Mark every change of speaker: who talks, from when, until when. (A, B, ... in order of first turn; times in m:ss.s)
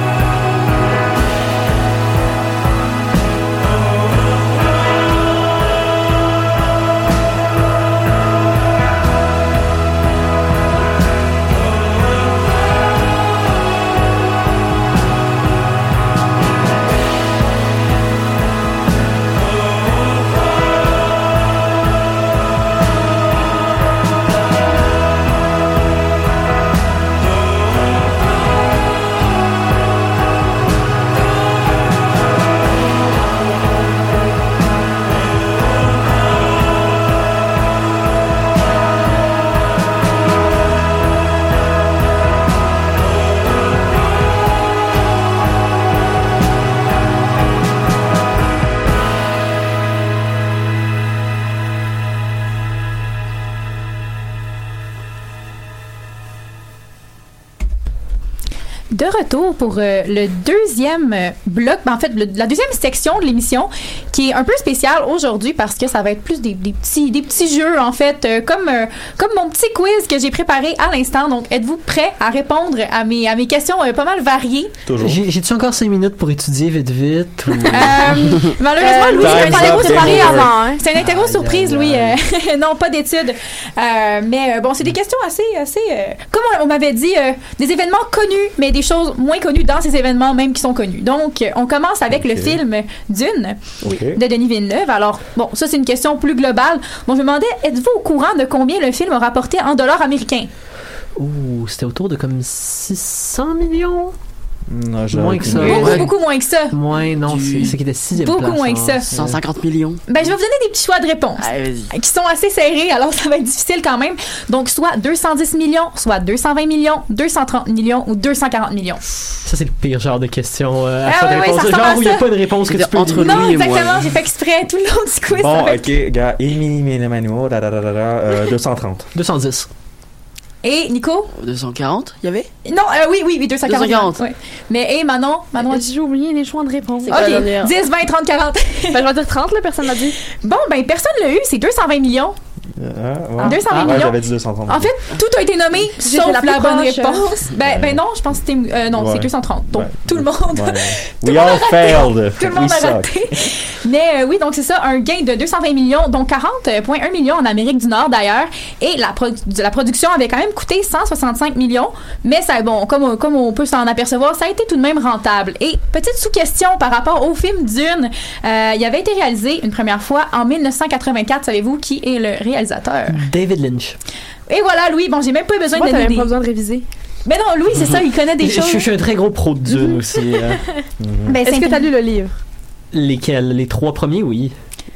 0:58.9-1:14.7 A
1:14.8-1:15.2 B
1:15.0-1:18.4 C
1:17.7-1:40.5 A
1:18.7-1:20.8 D
1:19.1-1:20.7 B
1:21.0-1:22.1 C
1:32.1-1:32.6 B
1:33.8-1:34.2 B
1:41.2-1:44.1 C
1:44.7-1:46.0 B
1:45.1-1:46.1 C
1:45.6-1:46.7 A
1:45.6-1:46.1 E
1:46.7-1:49.4 C
1:47.2-1:47.8 E
1:48.2-1:49.0 A
1:49.1-1:50.0 E
1:50.1-1:59.0 A
1:51.4-1:51.9 E
1:59.4-2:03.5 C
2:01.0-2:02.3 A
2:02.6-2:04.1 E
2:03.1-2:05.9 A
2:05.3-2:09.1 B
2:09.1-2:09.7 C
2:10.6-2:11.3 A
2:11.4-2:12.5 E
2:12.6-2:15.9 A
2:13.6-2:14.2 E
2:15.6-2:17.7 D
2:17.0-2:19.0 A
2:17.1-2:17.6 E
2:18.9-2:20.2 D
2:20.4-2:22.4 A
2:22.8-2:25.0 B
2:23.4-2:53.2 A
2:23.4-2:23.7 D
2:26.0-2:27.4 D
2:27.6-2:28.0 B
2:28.9-2:33.1 B
2:53.1-2:54.0 C
2:54.5-2:56.3 A
2:55.7-2:56.8 D
2:57.2-2:58.9 A
2:58.4-3:00.6 C
2:59.7-3:00.0 A
3:01.0-3:01.4 B
3:01.3-3:01.9 A
3:01.4-3:02.4 D
3:02.9-3:04.5 C